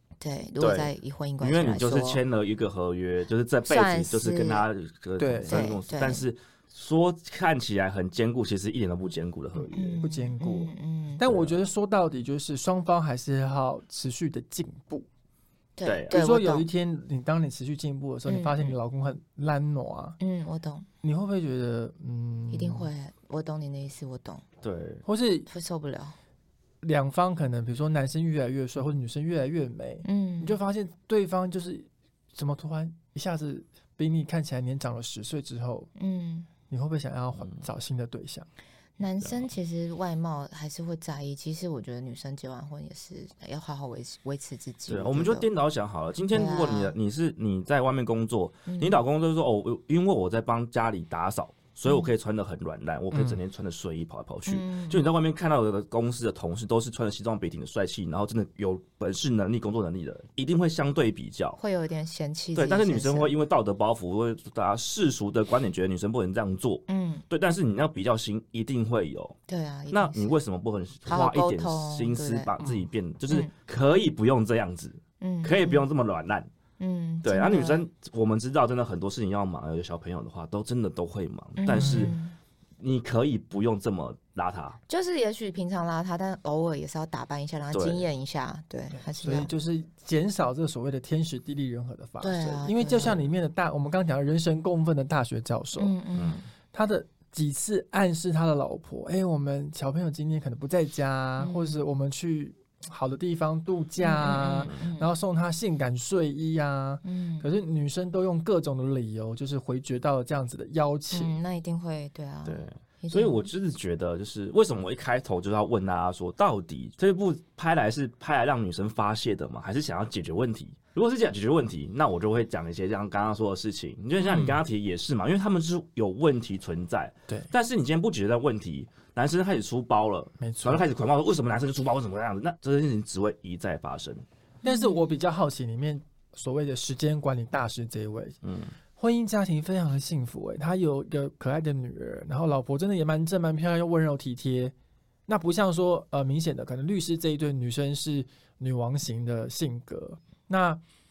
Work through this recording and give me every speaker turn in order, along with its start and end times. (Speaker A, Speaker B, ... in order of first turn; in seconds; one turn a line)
Speaker A: 0.2-2.2
Speaker B: 0.6-10.0
Speaker A: 3.7-4.7
Speaker C: 5.2-5.6
Speaker A: 5.5-6.2
Speaker A: 9.7-11.3
Speaker C: 10.0-15.1
Speaker B: 11.2-11.5
Speaker A: 15.8-16.7
Speaker B: 15.8-16.2
Speaker C: 16.1-20.2
Speaker A: 18.3-18.7
Speaker A: 20.2-20.9
Speaker C: 21.0-22.9
Speaker A: 22.5-24.4
Speaker B: 24.6-25.0
Speaker C: 25.1-25.5
Speaker A: 25.5-26.2
Speaker C: 26.8-35.9
Speaker A: 30.0-30.6
Speaker A: 36.0-36.5
Speaker C: 36.7-38.5
Speaker A: 39.0-45.5
Speaker B: 39.2-39.5
Speaker B: 44.9-61.6
Speaker A: 46.3-47.0
Speaker A: 48.7-49.0
Speaker A: 51.9-52.1
Speaker C: 53.1-53.4
Speaker A: 54.5-55.1
Speaker A: 61.6-63.4
Speaker B: 62.5-69.4
Speaker A: 66.9-67.2
Speaker A: 69.5-70.4
Speaker B: 69.9-76.5
Speaker A: 71.1-72.5
Speaker C: 72.6-72.9
Speaker A: 75.2-75.8
Speaker A: 76.8-77.8
Speaker B: 77.2-82.2
Speaker A: 81.6-82.4
Speaker C: 81.7-82.2
Speaker B: 82.8-84.8
Speaker A: 84.9-89.5
Speaker B: 87.7-88.1
Speaker C: 88.9-96.0
Speaker A: 92.2-93.2
Speaker A: 95.8-96.5
Speaker B: 96.2-96.4
Speaker C: 96.7-111.3
Speaker A: 101.4-101.8
Speaker A: 104.0-105.1
Speaker A: 107.0-107.5
Speaker A: 111.1-113.5
Speaker B: 112.5-134.2
Speaker C: 124.2-124.6
Speaker C: 130.4-130.8
Speaker A: 134.6-135.0
Speaker C: 134.6-138.4
Speaker B: 138.4-138.7
Speaker C: 139.0-144.7
Speaker C: 145.3-150.8